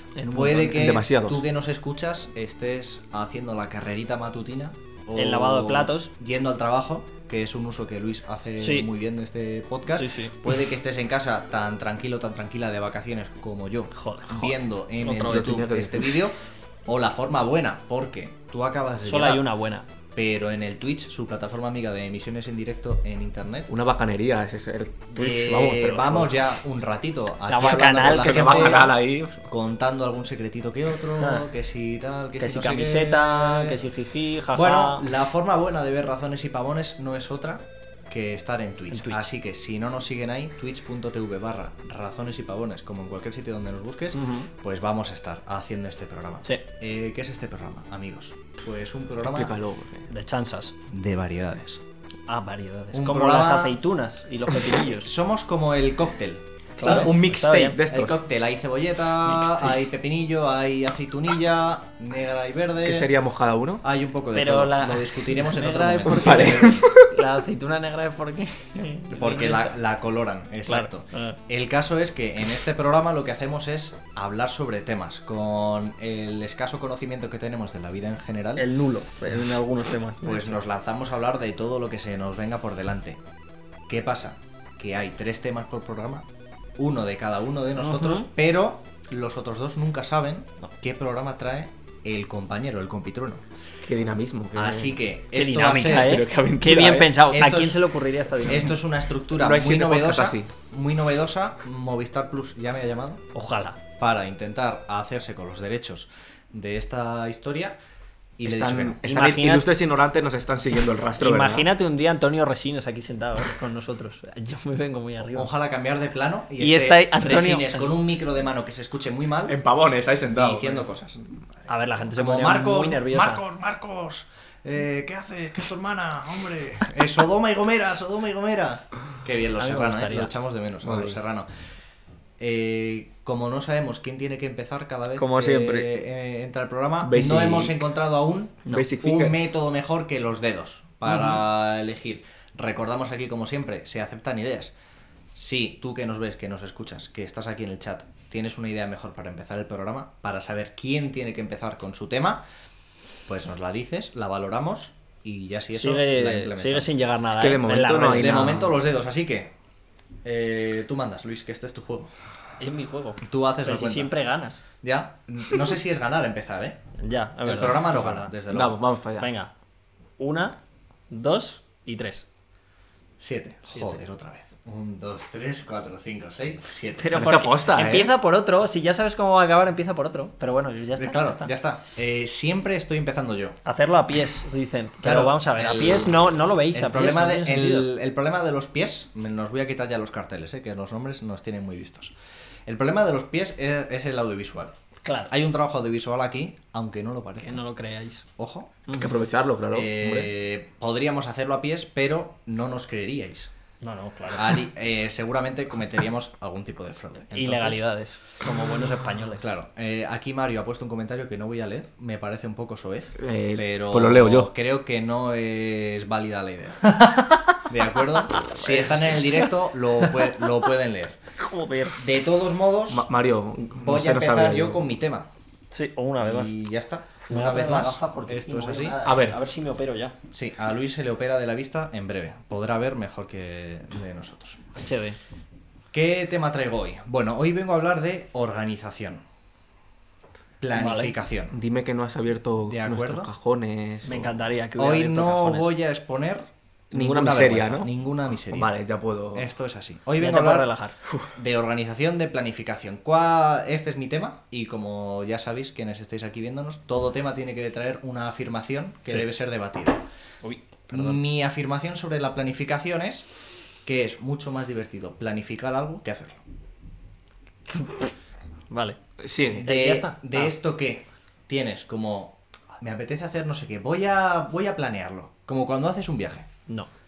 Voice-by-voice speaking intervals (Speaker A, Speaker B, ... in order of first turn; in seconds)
Speaker A: 0.1-0.7, 5.2-6.1, 8.6-8.9, 9.9-10.3, 13.9-15.4, 19.1-19.8, 27.5-28.9, 31.2-31.4, 32.4-35.0, 38.9-39.2, 44.1-44.5, 50.1-50.7, 52.3-55.1, 56.8-57.8, 64.3-69.7, 70.7-71.4, 78.6-80.6, 87.8-88.3, 95.3-98.7, 103.3-103.8, 109.0-109.7, 111.2-115.5, 116.6-117.9, 121.7-123.4, 129.6-130.3, 135.2-135.9, 155.7-158.6, 162.6-164.6, 167.0-168.3, 169.2-169.5, 170.2-170.5, 171.1-172.2, 177.0-181.5, 183.6-187.9, 195.0-195.3, 197.4-198.2, 203.8-204.6, 207.3-209.4, 216.9-217.5, 218.3-218.7, 221.4-222.0, 225.7-226.5, 227.2-230.1, 234.8-235.2, 240.7-241.1, 244.0-245.7, 250.2-250.9, 260.4-261.2, 267.7-268.1, 268.7-269.0, 269.6-270.5
Speaker B: 0.3-19.5, 20.1-23.7, 25.1-33.8, 34.5-49.5, 50.9-51.8, 52.9-53.8, 54.9-57.1, 57.9-63.1, 63.8-66.9, 69.1-78.7, 80.2-83.2, 83.9-86.2, 86.8-93.4, 94.5-96.2, 97.3-97.8, 98.4-103.2, 104.0-107.8, 108.4-109.0, 115.3-119.6, 120.3-121.3, 122.1-131.5, 132.4-144.7, 145.3-152.4, 153.3-157.0, 158.2-159.5, 160.2-162.1, 163.2-164.1, 164.8-166.8, 167.4-168.8, 173.2-177.4, 181.0-183.6, 185.0-192.1, 192.7-194.7, 195.3-197.6, 198.4-198.8, 199.7-203.5, 204.3-207.8, 209.4-217.0, 217.7-221.2, 222.0-223.1, 223.8-225.3, 226.2-229.0, 230.3-234.6, 235.9-239.2, 240.6-241.6, 242.7-243.3, 244.8-248.7, 249.3-250.7, 251.3-260.0, 260.9-263.3, 263.8-266.4, 269.6-276.5
Speaker C: 0.5-1.4, 15.1-16.2, 23.7-26.4, 27.6-29.4, 49.2-50.1, 56.8-58.2, 62.8-63.8, 66.0-67.1, 93.8-95.0, 95.8-97.1, 99.3-100.5, 108.4-111.7, 119.5-120.8, 130.8-131.2, 137.0-137.8, 138.7-139.5, 157.4-158.7, 168.5-169.3, 177.1-178.1, 198.9-200.3, 213.2-214.5, 222.9-224.8, 229.0-229.4, 241.5-244.3, 246.9-247.9, 248.5-249.5, 269.2-269.7